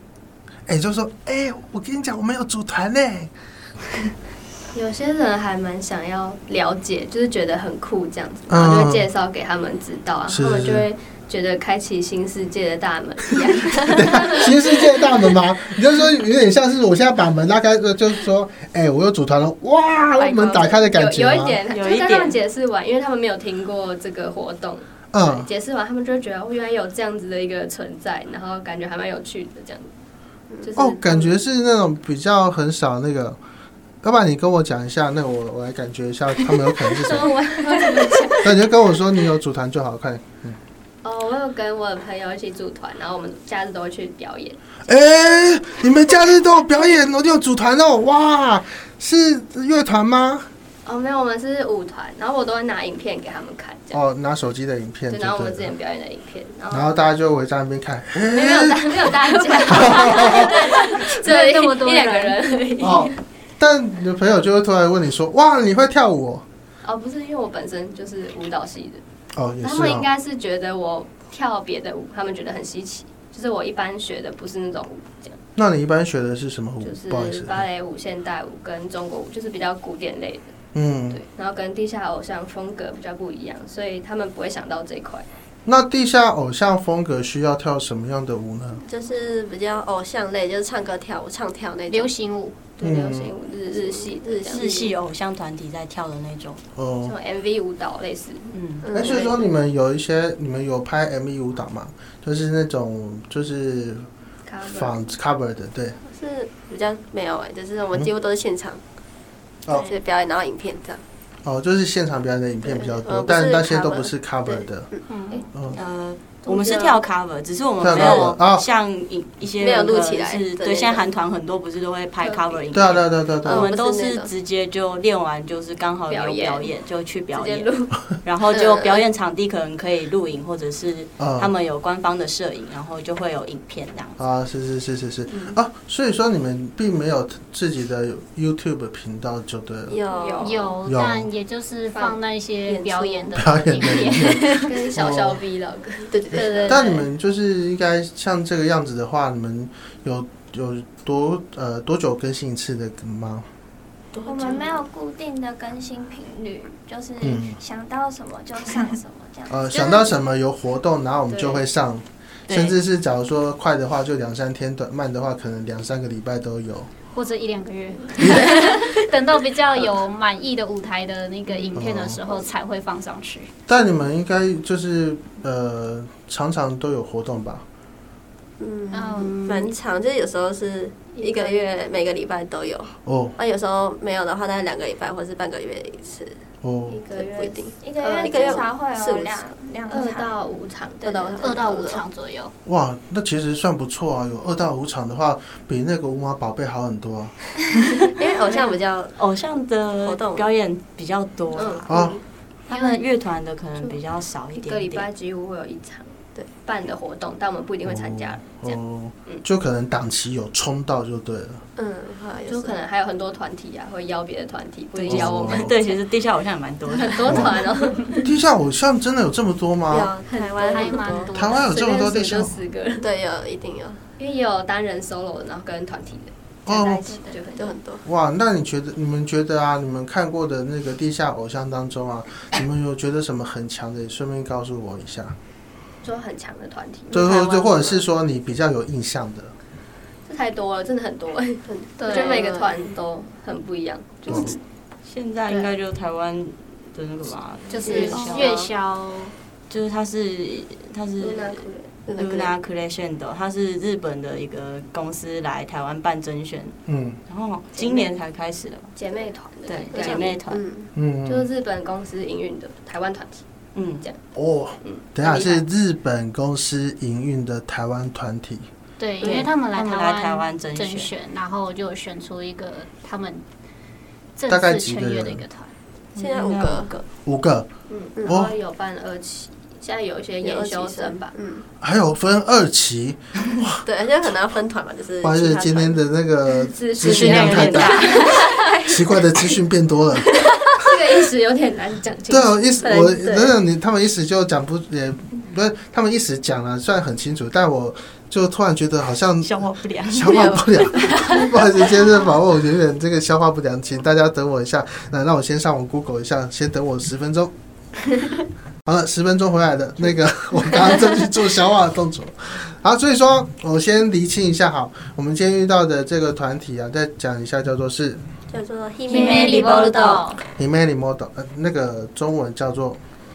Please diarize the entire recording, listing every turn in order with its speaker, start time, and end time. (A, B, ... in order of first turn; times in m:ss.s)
0:00.7-0:03.3 A
0:04.7-0:14.9 B
0:08.5-0:09.1 A
0:10.3-0:10.9 A
0:13.9-0:21.6 A
0:20.2-0:30.0 B
0:21.7-0:22.4 C
0:25.1-0:25.5 A
0:30.6-0:31.4 B
0:30.8-0:33.4 A
0:34.0-0:37.3 A
0:37.0-0:38.6 B
0:38.4-0:40.6 A
0:41.0-0:44.6 B
0:44.8-0:50.5 A
0:50.8-0:54.0 B
0:53.9-0:55.7 A
0:55.1-0:56.9 B
0:56.7-1:00.5 A
0:58.2-1:03.2 B
0:59.4-0:59.8 D
1:00.2-1:02.6 E
1:02.8-1:06.4 A
1:06.8-1:09.0 B
1:09.3-1:10.1 A
1:09.6-1:15.4 B
1:15.6-1:17.6 A
1:16.8-1:20.5 B
1:20.7-1:21.2 A
1:21.1-1:25.3 B
1:25.6-1:28.8 A
1:28.8-1:32.1 D
1:31.9-1:32.7 E
1:32.8-1:34.7 B
1:32.8-1:33.4 A
1:33.7-1:34.9 D
1:34.5-1:36.6 C
1:36.8-1:37.1 A
1:37.0-1:38.5 B
1:38.5-1:38.8 C
1:38.8-1:39.5 D
1:38.9-1:44.1 A
1:44.4-1:45.0 B
1:44.7-1:46.0 A
1:46.0-1:48.8 D
1:49.8-1:51.0 D
1:51.4-1:54.9 A
1:52.6-1:55.0 D
1:55.1-1:55.5 E
1:55.5-1:55.8 A
1:55.7-2:14.2 C
1:56.4-1:57.0 D
1:57.8-1:58.6 A
1:59.6-2:01.0 D
2:02.2-2:02.6 B
2:02.7-2:03.7 A
2:03.4-2:04.3 D
2:06.1-2:06.7 B
2:07.3-2:07.9 B
2:08.5-2:09.0 D
2:11.2-2:11.5 A
2:14.2-2:20.0 A
2:19.9-2:20.6 D
2:20.1-2:20.7 B
2:20.4-2:24.8 E
2:20.8-2:21.3 A
2:22.6-2:23.4 D
2:23.3-2:25.4 A
2:24.6-2:26.9 B
2:26.1-2:26.7 D
2:26.3-2:27.0 E
2:26.7-2:33.4 A
2:34.1-2:34.6 D
2:34.2-2:39.7 F
2:37.2-2:37.6 A
2:39.5-2:46.9 A
2:39.7-2:40.2 E
2:41.3-2:41.6 B
2:42.5-2:42.8 C
2:47.1-2:53.5 E
2:48.2-2:48.4 A
2:51.7-2:52.2 A
2:53.7-2:57.6 A
2:58.6-3:06.4 D
2:58.9-2:59.7 E
3:01.1-3:01.7 B
3:03.0-3:03.4 A
3:06.6-3:07.0 A
3:06.9-3:08.7 B
3:07.1-3:09.5 D
3:07.8-3:10.5 F
3:09.9-3:12.0 B
3:11.0-3:11.7 D
3:11.4-3:12.5 E
3:12.6-3:17.4 A
3:18.1-3:19.1 D
3:19.2-3:21.9 C
3:20.0-3:20.4 D
3:21.5-3:21.9 B
3:21.9-3:22.2 D
3:21.9-3:22.2 A
3:22.7-3:23.1 E
3:22.7-3:25.1 C
3:24.6-3:29.4 B
3:27.8-3:31.6 A
3:31.8-3:32.8 D
3:32.5-3:35.9 B
3:35.0-3:37.6 C
3:35.1-3:35.7 A
3:36.9-3:38.2 B
3:37.3-3:37.6 A
3:38.2-3:40.1 A
3:39.9-3:41.3 D
3:40.3-3:43.0 B
3:40.6-3:41.8 E
3:41.3-3:42.6 A
3:43.0-3:44.0 D
3:44.2-3:47.8 B
3:46.6-3:47.0 A
3:47.6-3:48.0 D
3:48.0-3:55.4 A
3:56.0-3:58.0 B
3:57.1-3:59.5 A
4:00.3-4:04.6 B
4:01.7-4:02.9 D
4:02.0-4:02.5 E
4:04.3-4:04.6 A
4:04.3-4:08.5 C
4:05.5-4:05.7 B
4:07.7-4:09.3 E
4:07.8-4:08.7 D
4:07.9-4:08.3 B
4:09.7-4:18.9 C
4:11.2-4:11.9 B
4:12.0-4:12.5 D
4:16.9-4:17.2 A
4:17.8-4:18.2 B
4:19.0-4:20.4 B
4:19.7-4:20.6 C
4:19.9-4:20.9 D
4:20.9-4:21.5 A
4:21.2-4:23.4 B
4:23.7-4:24.1 C
4:24.3-4:28.7 A
4:24.8-4:25.6 B
4:29.0-4:33.4 E
4:29.2-4:31.1 C
4:34.4-4:35.7 E
4:34.5-4:35.4 A
4:36.1-4:36.9 C
4:36.2-4:37.0 D
4:37.2-4:37.7 A
4:37.9-4:41.4 B
4:38.2-4:38.6 A
4:40.4-4:41.6 D
4:41.8-4:43.8 A
4:43.8-4:46.0 D
4:45.2-4:48.1 A
4:46.5-4:48.8 B
4:47.0-4:48.4 C
4:48.6-4:49.2 D
4:48.8-4:50.3 A
4:50.8-4:53.6 B
4:52.3-5:07.5 A
4:59.4-5:02.0 C
5:08.8-5:18.2 A
5:18.5-5:20.2 D
5:19.1-5:20.4 E
5:19.1-5:19.6 C
5:20.6-5:23.0 A